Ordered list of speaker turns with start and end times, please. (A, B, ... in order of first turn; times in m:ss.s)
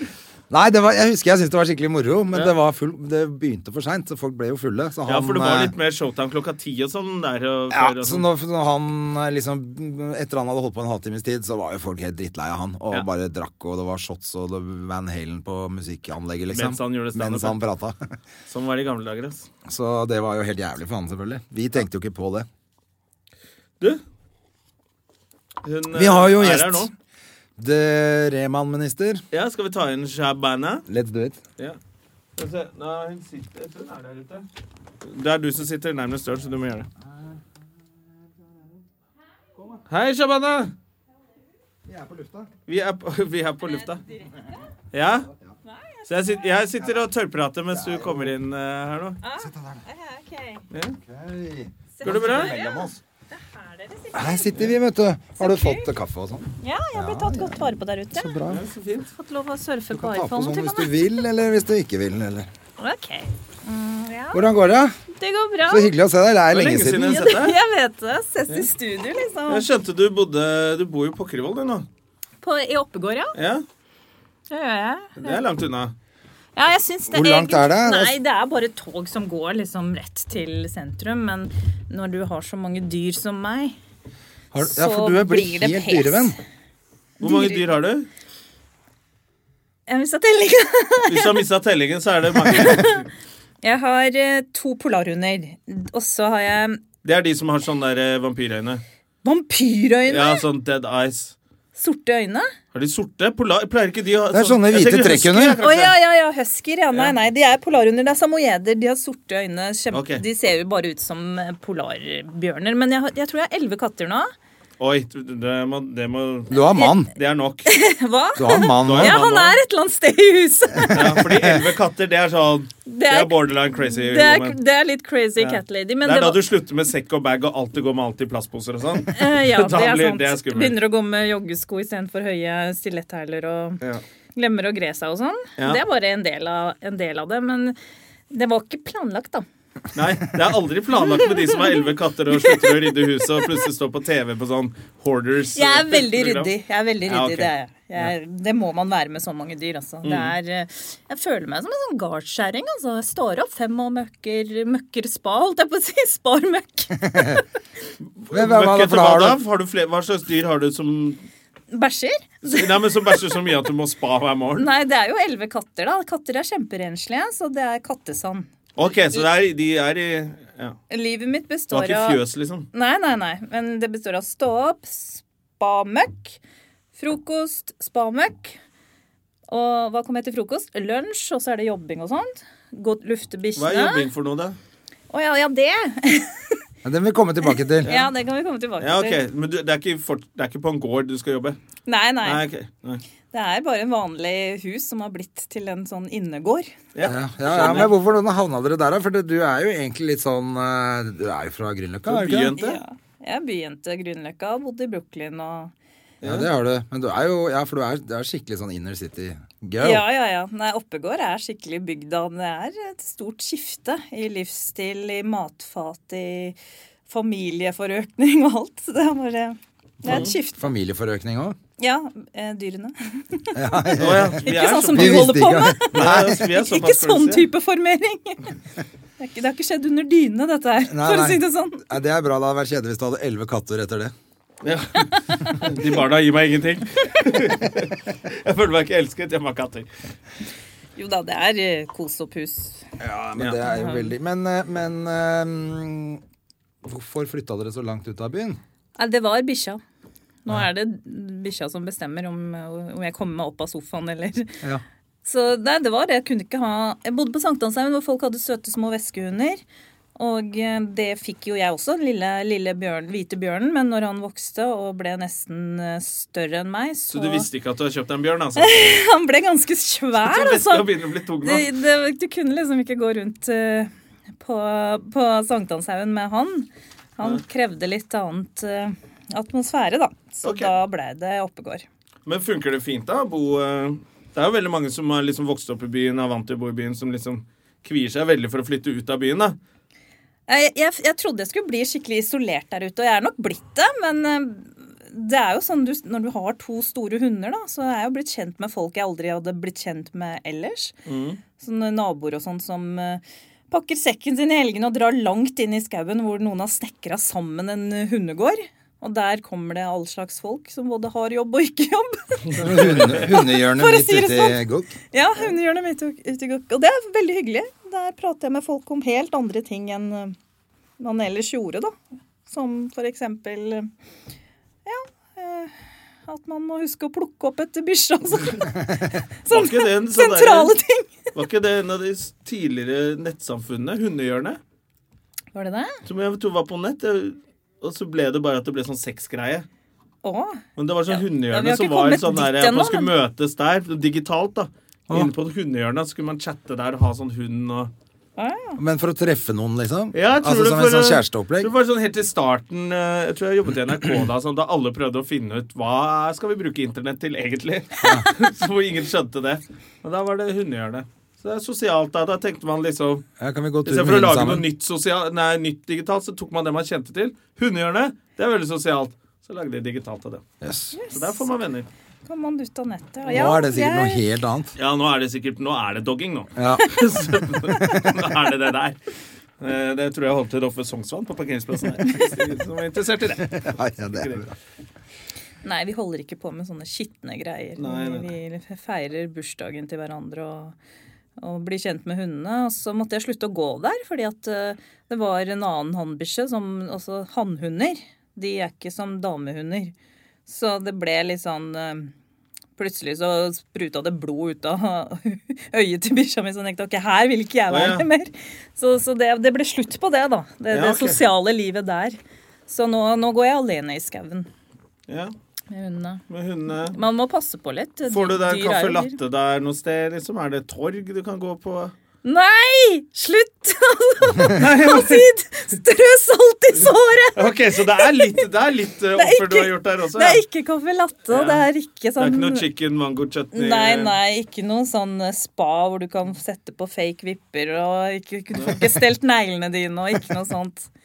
0:00.5-0:05.7 A
0:05.0-0:08.3 B
0:07.7-0:18.0 A
0:16.5-0:17.6 B
0:18.5-0:19.5 B
0:19.6-0:22.5 A
0:25.6-0:26.9 B
0:25.9-0:26.9 A
0:27.6-0:29.2 A
0:29.3-0:30.8 B
0:30.9-0:31.4 A
0:32.4-0:34.5 B
0:35.0-0:36.9 B
0:37.0-0:37.4 A
0:39.6-0:39.8 A
0:39.9-0:40.7 B
0:41.8-0:42.5 A
0:42.7-0:44.0 B
0:43.6-0:44.3 C
0:44.9-0:45.3 B
0:45.6-0:46.6 C
0:46.1-0:49.2 B
0:47.7-0:48.3 A
0:49.2-0:50.6 C
0:49.4-0:49.8 A
0:50.7-0:51.0 B
0:51.0-0:53.0 A
0:52.0-0:54.7 C
0:52.0-0:52.6 B
0:54.1-0:58.6 A
0:55.4-0:55.9 C
0:56.6-0:58.4 C
0:58.5-0:59.1 B
0:59.1-1:01.1 C
0:59.9-1:02.5 A
1:02.8-1:04.4 C
1:04.3-1:05.0 A
1:05.1-1:05.9 C
1:05.7-1:07.2 A
1:06.5-1:07.6 B
1:07.1-1:09.6 C
1:09.5-1:11.8 B
1:12.4-1:13.4 C
1:13.3-1:13.6 B
1:14.5-1:15.4 C
1:15.2-1:15.9 B
1:16.6-1:23.8 C
1:17.1-1:18.1 A
1:24.5-1:26.4 A
1:24.6-1:26.4 C
1:27.2-1:27.6 C
1:27.2-1:28.1 B
1:29.9-1:31.4 C
1:31.1-1:33.1 B
1:32.4-1:33.0 C
1:33.6-1:36.8 C
1:37.0-1:38.8 B
1:39.2-1:40.4 C
1:40.1-1:41.3 B
1:41.8-1:42.5 C
1:42.7-1:45.9 B
1:44.3-1:45.6 A
1:45.6-1:54.3 C
1:49.9-1:50.2 B
1:54.8-1:56.6 B
1:56.5-1:57.1 A
1:57.1-1:57.7 B
1:57.6-2:01.2 C
1:58.4-1:59.2 A
1:58.8-1:59.6 B
2:00.9-2:04.6 B
2:00.9-2:01.5 A
2:02.8-2:06.4 C
2:05.4-2:10.8 B
2:09.1-2:13.8 C
2:14.4-2:17.8 C
2:18.3-2:19.4 C
2:19.9-2:26.5 B
2:21.1-2:23.4 C
2:25.5-2:37.4 C
2:27.1-2:28.1 B
2:30.0-2:30.3 B
2:37.0-2:37.4 A
2:38.0-2:41.2 B
2:38.3-2:39.4 A
2:41.7-2:43.2 C
2:42.4-2:44.7 B
2:44.6-2:48.5 C
2:48.8-2:50.8 B
2:50.9-2:52.2 C
2:51.7-2:52.7 B
2:52.7-2:56.4 C
2:57.0-2:58.6 C
2:59.5-3:04.0 C
3:03.6-3:04.6 B
3:05.1-3:06.6 C
3:06.8-3:07.9 A
3:07.8-3:09.2 C
3:07.8-3:08.1 B
3:08.8-3:11.6 B
3:11.8-3:12.4 C
3:12.2-3:13.0 B
3:13.3-3:16.7 C
3:16.9-3:17.9 B
3:17.0-3:22.6 A
3:22.0-3:22.8 B
3:22.6-3:25.7 C
3:26.2-3:26.5 B
3:26.2-3:30.0 A
3:29.8-3:36.6 C
3:37.1-3:40.7 C
3:40.0-3:40.3 B
3:40.0-3:41.6 A
3:41.8-3:48.5 C
3:43.5-3:46.4 A
3:44.0-3:47.5 B
3:49.2-3:51.8 C
3:50.9-3:54.1 A
3:54.6-3:59.9 B
3:55.2-3:55.7 C
4:01.0-4:02.8 C
4:03.0-4:06.2 A
4:03.6-4:04.1 C
4:06.8-4:08.6 A
4:09.0-4:09.8 C
4:10.4-4:14.6 C
4:15.2-4:19.6 C
4:20.2-4:27.4 C
4:27.1-4:29.0 B
4:28.6-4:30.9 C
4:30.2-4:31.7 B
4:31.4-4:41.8 C
4:40.4-4:40.7 B
4:42.2-4:49.6 B
4:50.5-5:01.0 C
5:01.0-5:01.4 B
5:01.6-5:14.6 C
5:12.5-5:15.0 A
5:12.8-5:13.2 B
5:15.1-5:20.3 C
5:21.0-5:21.9 C
5:22.5-5:23.9 C
5:24.8-5:25.7 C
5:26.3-5:28.8 C
5:29.4-5:31.1 C
5:29.5-5:30.7 B
5:31.3-5:34.6 B
5:35.5-5:36.0 C
5:36.0-5:39.6 B
5:40.2-5:43.1 C
5:40.8-5:47.9 B
5:48.4-5:48.8 C
5:48.8-5:51.7 A
5:50.1-6:03.2 B
5:58.0-5:58.3 A
6:03.4-6:04.6 A
6:03.8-6:10.4 B
6:10.6-6:10.9 A
6:10.9-6:11.5 C
6:11.1-6:11.9 B
6:12.2-6:14.2 C
6:13.3-6:14.7 A
6:14.8-6:19.0 B
6:16.6-6:18.1 A
6:19.6-6:24.5 B
6:23.4-6:24.5 A
6:25.6-6:30.7 C
6:27.8-6:28.3 B
6:31.4-6:39.9 C
6:40.5-6:42.1 C
6:42.8-6:52.2 C
6:47.7-6:48.0 B
6:50.7-6:51.2 B
6:52.7-6:54.5 C
6:55.1-6:55.3 B
6:55.7-6:59.1 C
6:56.3-6:57.0 B
6:58.1-7:01.9 B
7:02.2-7:08.4 C
7:04.5-7:05.3 B
7:07.3-7:10.4 B
7:09.2-7:12.6 C
7:11.3-7:11.6 B
7:12.2-7:14.1 B
7:13.5-7:20.9 C
7:18.5-7:19.0 B